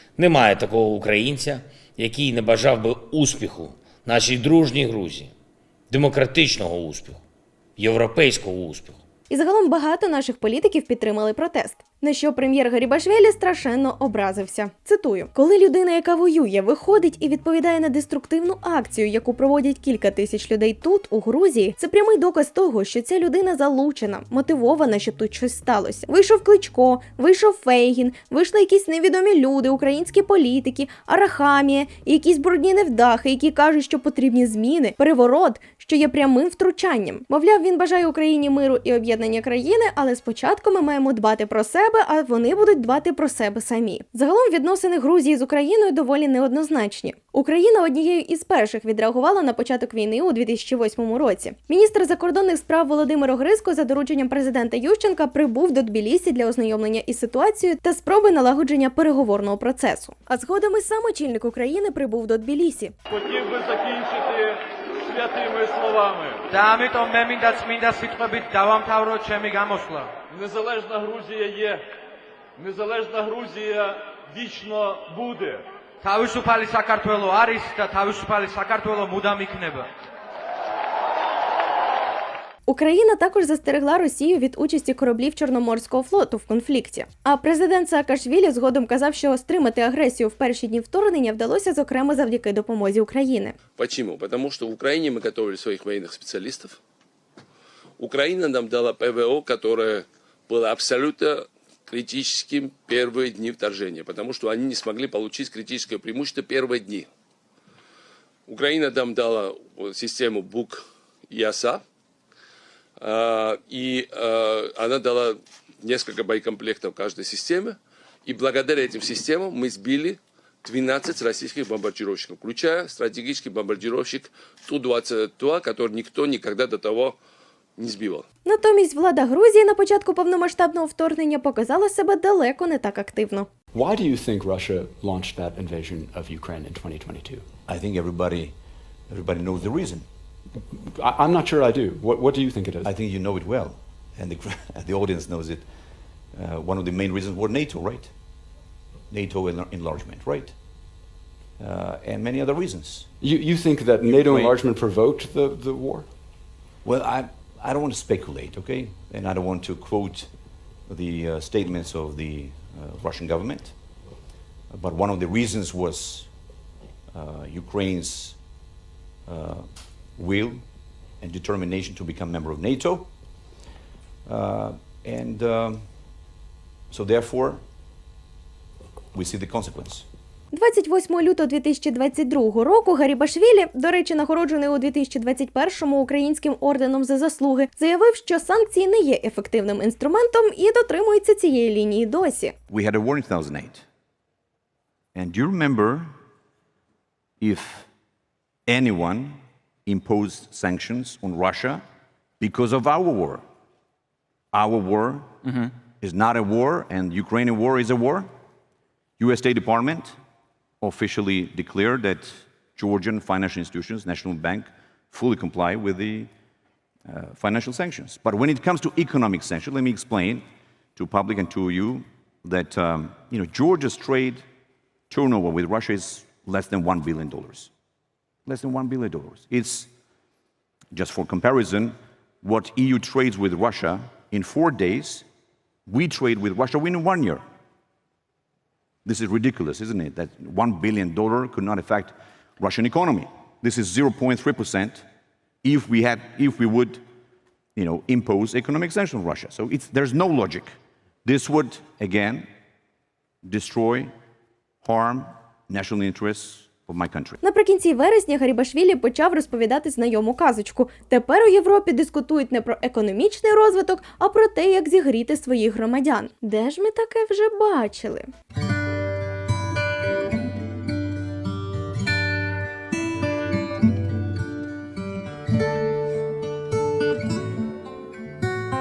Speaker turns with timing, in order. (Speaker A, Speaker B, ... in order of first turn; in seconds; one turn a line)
Speaker A: 0.2-5.3
Speaker A: 5.9-7.2
Speaker A: 7.8-9.0
Speaker B: 9.3-62.9
Speaker C: 63.1-66.4
Speaker D: 66.5-70.1
Speaker C: 70.3-71.8
Speaker C: 72.6-75.7
Speaker D: 76.0-79.9
Speaker B: 82.7-93.5
Speaker E: 93.8-96.8
Speaker E: 98.0-107.1
Speaker E: 108.5-111.8
Speaker E: 113.0-127.2
Speaker E: 127.8-128.2
Speaker B: 128.4-133.5
Speaker F: 133.7-137.5
Speaker G: 137.7-138.5
Speaker G: 139.1-140.1
Speaker F: 140.7-142.9
Speaker G: 142.8-145.7
Speaker G: 146.3-148.1
Speaker G: 149.1-150.6
Speaker G: 151.6-153.1
Speaker F: 153.2-156.1
Speaker G: 154.0-154.5
Speaker G: 156.8-160.3
Speaker G: 160.9-163.7
Speaker G: 164.7-166.3
Speaker G: 167.1-168.4
Speaker G: 169.3-170.6
Speaker G: 171.2-173.1
Speaker G: 174.2-175.8
Speaker G: 176.9-177.6
Speaker G: 179.1-180.1
Speaker B: 180.5-192.5
Speaker G: 192.7-193.8
Speaker G: 195.1-196.1
Speaker G: 197.4-197.9
Speaker G: 198.7-201.8
Speaker G: 202.4-203.4
Speaker G: 204.5-208.3
Speaker G: 209.2-210.2
Speaker G: 210.8-216.3
Speaker G: 217.1-220.4
Speaker G: 220.9-224.4
Speaker G: 225.1-227.7
Speaker G: 228.4-229.9
Speaker G: 230.9-235.2
Speaker G: 235.8-237.4
Speaker G: 239.0-245.1
Speaker G: 245.6-247.0
Speaker G: 247.7-252.5
Speaker G: 253.4-254.1
Speaker G: 254.8-257.4
Speaker B: 257.4-268.3